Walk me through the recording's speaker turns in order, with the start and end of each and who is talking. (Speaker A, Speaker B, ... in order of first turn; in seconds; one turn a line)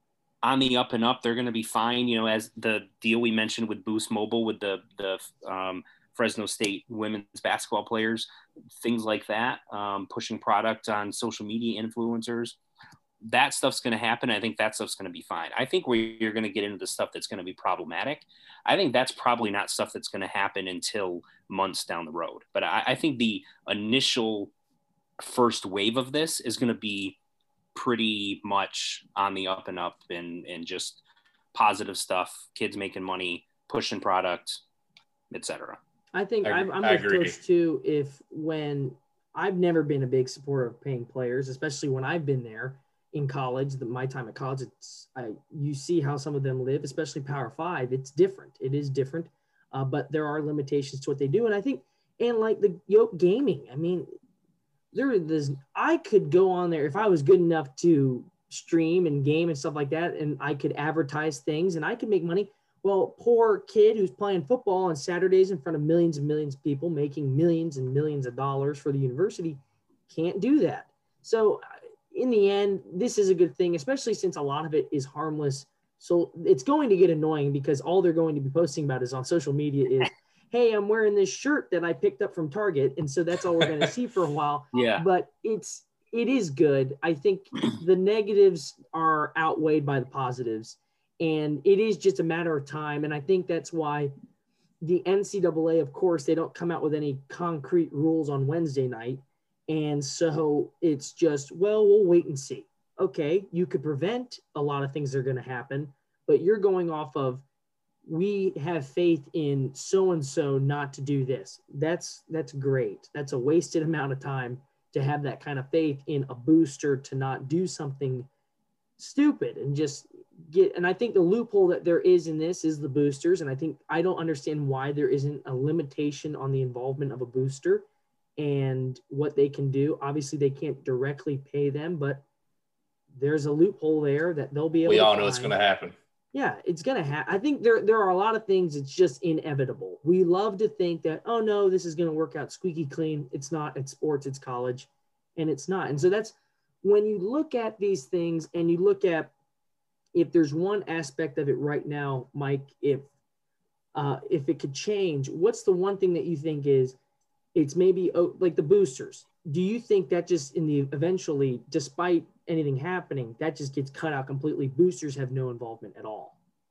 Speaker A: 0.4-8.3
Speaker A: 8.8-12.6
Speaker A: 13.2-24.5
Speaker A: 25.2-27.2
Speaker A: 27.8-31.0
Speaker A: 31.5-34.6
Speaker A: 35.3-35.8
Speaker B: 36.1-54.1
Speaker C: 36.4-37.4
Speaker B: 54.9-94.1
Speaker A: 84.7-85.0
Speaker B: 94.8-107.4
Speaker B: 108.1-118.3
Speaker B: 119.0-127.9
Speaker B: 128.4-132.2
Speaker B: 133.1-135.6
Speaker C: 134.9-136.0
Speaker B: 136.3-149.3
Speaker B: 150.1-153.1
Speaker B: 153.9-157.0
Speaker B: 157.5-166.4